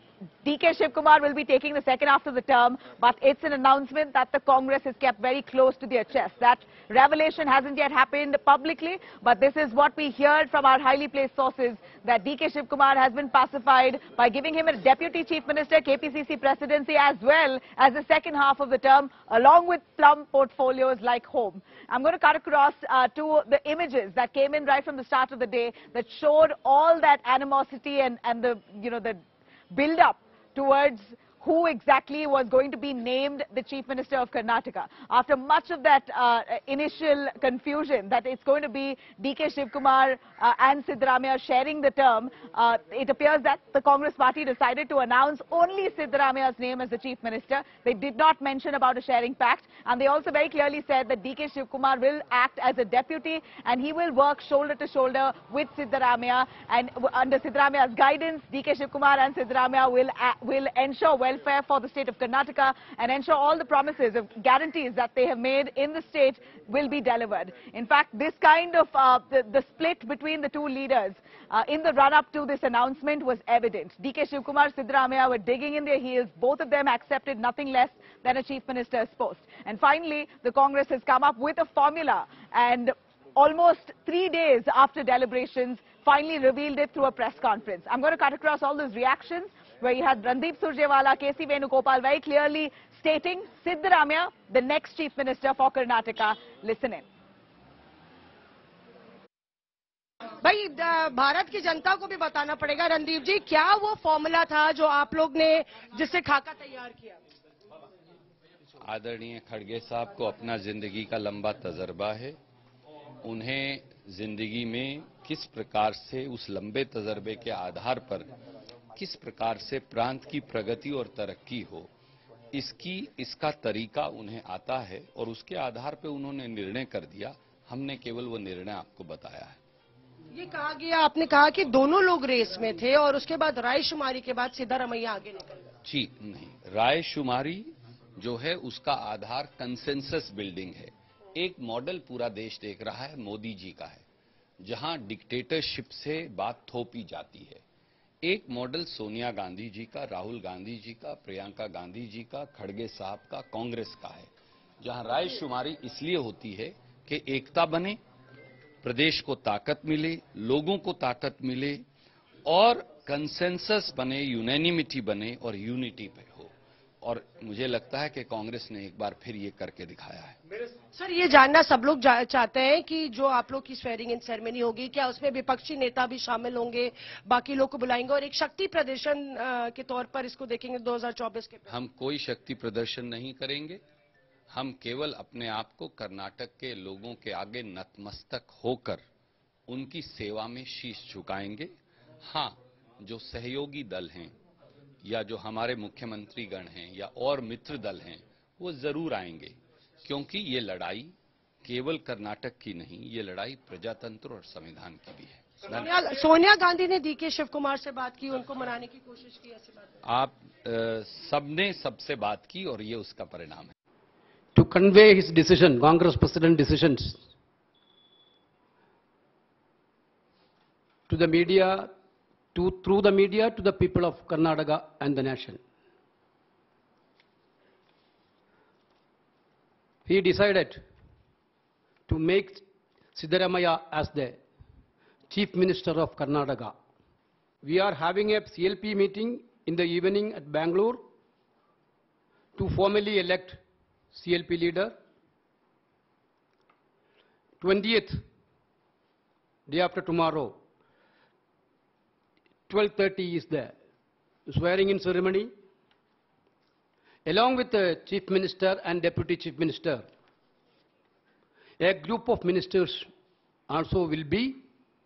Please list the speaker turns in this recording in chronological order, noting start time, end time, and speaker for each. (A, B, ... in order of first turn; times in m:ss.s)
0:00.4-1:37.0 A
1:40.4-1:47.2 B
1:48.8-1:52.4 C
1:53.2-1:58.3 C
1:59.0-2:01.9 C
2:02.5-2:09.6 C
2:10.3-2:15.6 B
2:15.8-2:24.0 C
2:24.6-2:27.6 C
2:28.2-2:38.0 C
2:38.8-2:41.8 C
2:42.5-2:46.5 C
2:47.0-2:50.4 C
2:50.9-3:01.7 B
3:01.7-3:03.8 C
3:04.5-3:09.0 C
3:09.7-3:11.7 C
3:12.2-3:14.4 C
3:15.0-3:21.1 C
3:21.6-3:25.8 C
3:25.6-3:29.9 B
3:30.1-3:33.7 C
3:34.6-3:37.2 D
3:41.1-3:41.9 D
3:42.5-3:45.6 D
3:50.1-3:50.8 D
3:52.1-3:52.6 D
3:53.2-3:54.4 D
3:55.3-3:56.8 D
3:57.6-4:01.0 D
4:02.6-4:03.6 D
4:04.1-4:04.9 D
4:07.6-4:08.2 D
4:09.7-4:10.6 D
4:12.7-4:13.8 D
4:14.5-4:15.5 D
4:17.3-4:20.1 D
4:21.8-4:23.1 D
4:23.7-4:24.6 D